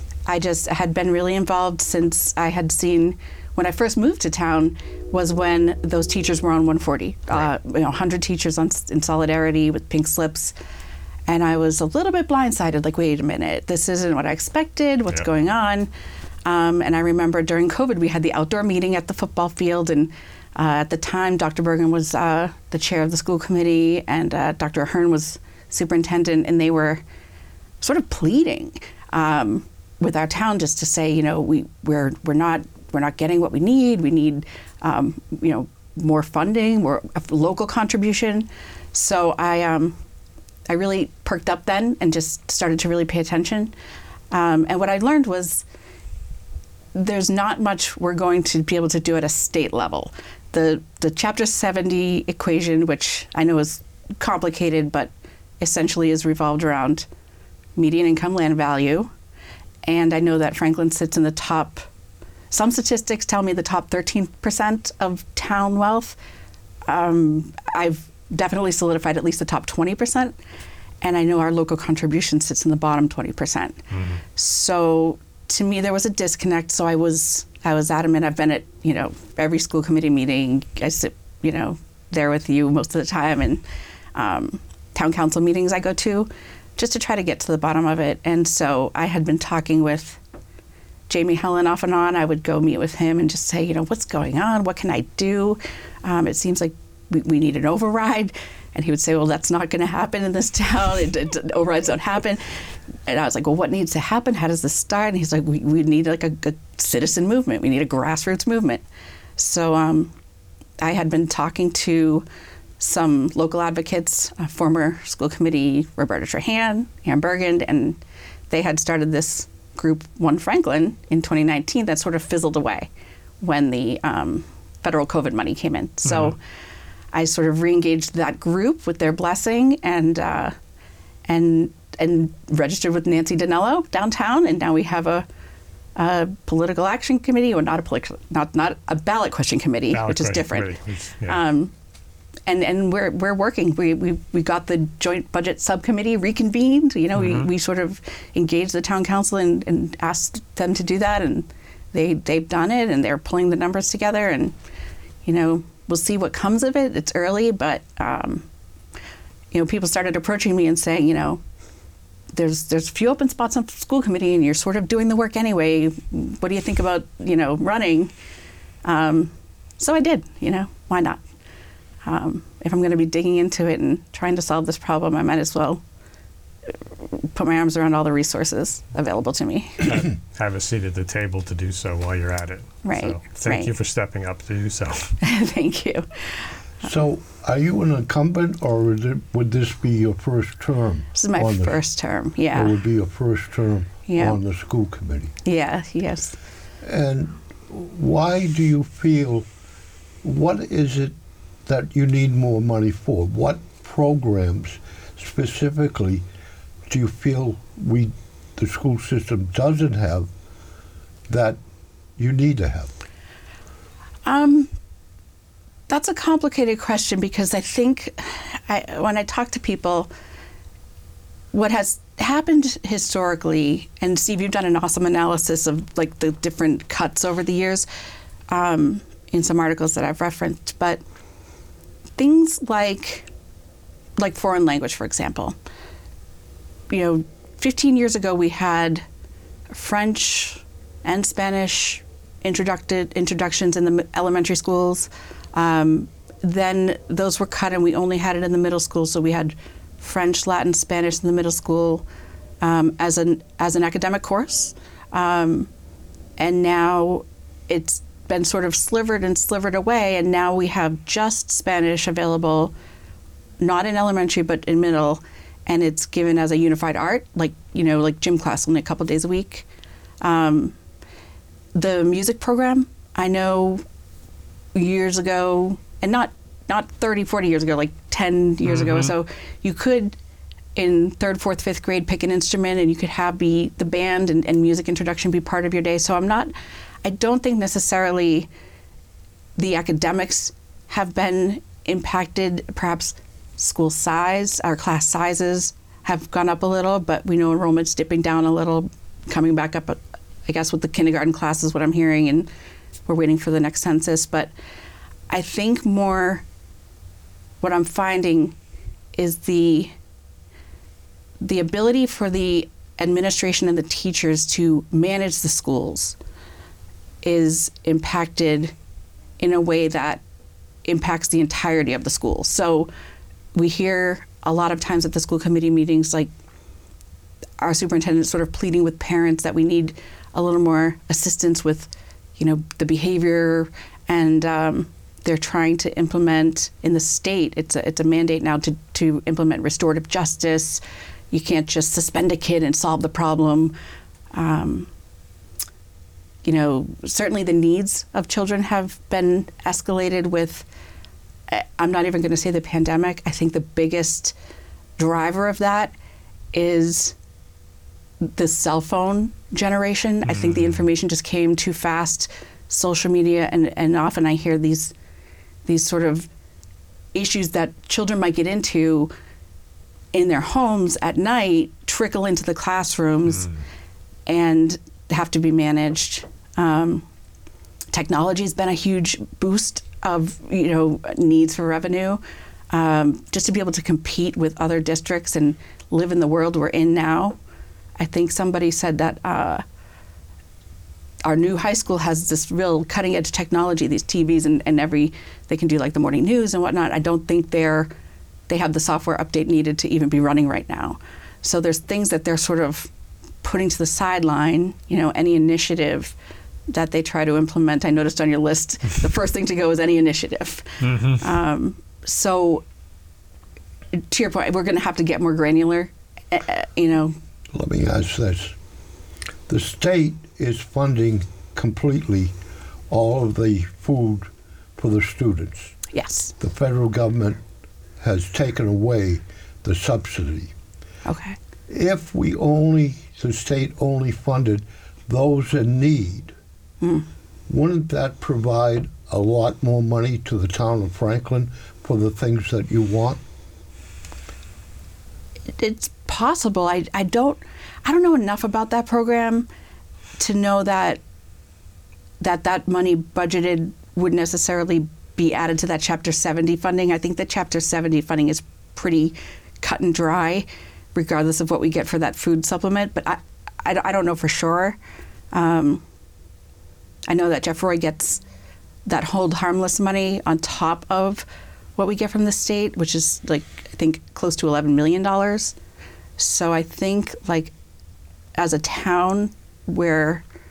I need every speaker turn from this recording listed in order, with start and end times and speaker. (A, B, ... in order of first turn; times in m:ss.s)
0:00.3-0:10.5 A
0:11.3-0:15.9 A
0:16.4-0:27.0 A
0:27.8-0:40.0 A
0:40.7-0:43.7 A
0:44.3-0:45.6 A
0:46.9-0:57.1 A
0:57.8-0:59.1 A
0:59.9-1:01.9 A
1:02.5-1:06.2 A
1:06.9-1:10.4 A
1:11.0-1:13.8 A
1:13.9-1:14.2 B
1:14.4-1:23.6 A
1:24.2-1:30.2 A
1:31.1-1:42.5 A
1:43.1-1:48.8 A
1:49.4-1:50.1 A
1:50.8-1:52.2 A
1:52.8-1:58.0 A
1:58.5-2:02.9 A
2:03.4-2:06.4 A
2:06.1-2:06.4 B
2:07.1-2:10.6 A
2:11.3-2:15.3 A
2:16.0-2:20.8 A
2:19.9-2:21.4 B
2:21.3-2:21.7 A
2:22.5-2:34.6 A
2:27.2-2:27.5 B
2:35.2-2:38.5 A
2:39.5-2:41.4 A
2:42.3-2:48.1 A
2:48.8-2:51.2 A
2:52.0-2:55.8 A
2:57.1-2:59.9 A
2:59.8-3:05.2 B
3:02.8-3:03.7 A
3:05.2-3:06.4 A
3:06.8-3:11.8 C
3:11.2-3:12.8 A
3:12.5-3:15.3 C
3:14.1-3:14.4 A
3:15.4-3:16.4 A
3:16.8-3:19.4 C
3:20.2-3:21.2 C
3:21.7-3:26.2 C
3:26.9-3:30.3 C
3:31.3-3:31.6 C
3:32.2-3:32.9 C
3:34.2-3:34.7 A
3:35.9-3:40.1 A
3:41.5-3:47.9 A
3:48.5-3:51.0 A
3:52.2-3:53.3 A
3:54.2-3:55.6 A
3:56.9-3:59.0 A
3:59.7-4:12.0 A
4:12.6-4:15.7 A
4:16.4-4:22.7 A
4:23.6-4:29.7 A
4:30.2-4:30.8 A
4:31.8-4:33.8 A
4:34.8-4:40.2 A
4:38.6-4:39.2 B
4:40.8-4:46.5 A
4:47.0-4:48.5 A
4:49.6-5:02.5 A
5:03.1-5:04.5 A
5:05.3-5:06.4 A
5:07.6-5:08.6 A
5:09.2-5:09.9 A
5:11.4-5:16.2 A
5:17.2-5:18.7 A
5:19.4-5:20.2 A
5:20.9-5:22.9 A
5:23.6-5:26.3 A
5:27.6-5:43.8 A
5:44.3-5:44.9 A
5:46.4-5:50.7 A
5:51.5-5:54.3 A
5:55.0-5:55.9 A
5:56.5-5:57.2 A
5:58.2-6:04.9 A
6:00.3-6:00.8 B
6:05.7-6:06.3 A
6:07.1-6:09.1 A
6:10.1-6:13.5 A
6:14.3-6:17.0 A
6:17.9-6:27.4 A
6:28.0-6:29.6 A
6:31.2-6:37.9 A
6:38.5-6:42.9 A
6:43.4-6:46.1 A
6:46.7-6:52.6 A
6:50.8-6:51.2 B
6:53.9-6:57.2 A
6:57.5-6:58.6 C
6:59.5-7:02.3 C
7:02.9-7:05.8 C
7:05.9-7:06.3 A
7:06.4-7:07.4 C
7:08.0-7:10.5 C
7:11.1-7:11.4 A
7:11.7-7:16.3 C
7:16.8-7:17.1 A
7:17.5-7:23.2 C
7:25.6-7:29.5 A
7:30.2-7:31.0 A
7:32.2-7:44.8 A
7:45.3-7:45.8 A
7:47.1-7:48.2 A
7:48.9-7:51.2 A
7:51.8-7:55.6 A
7:56.2-7:57.5 A
7:58.4-8:00.2 A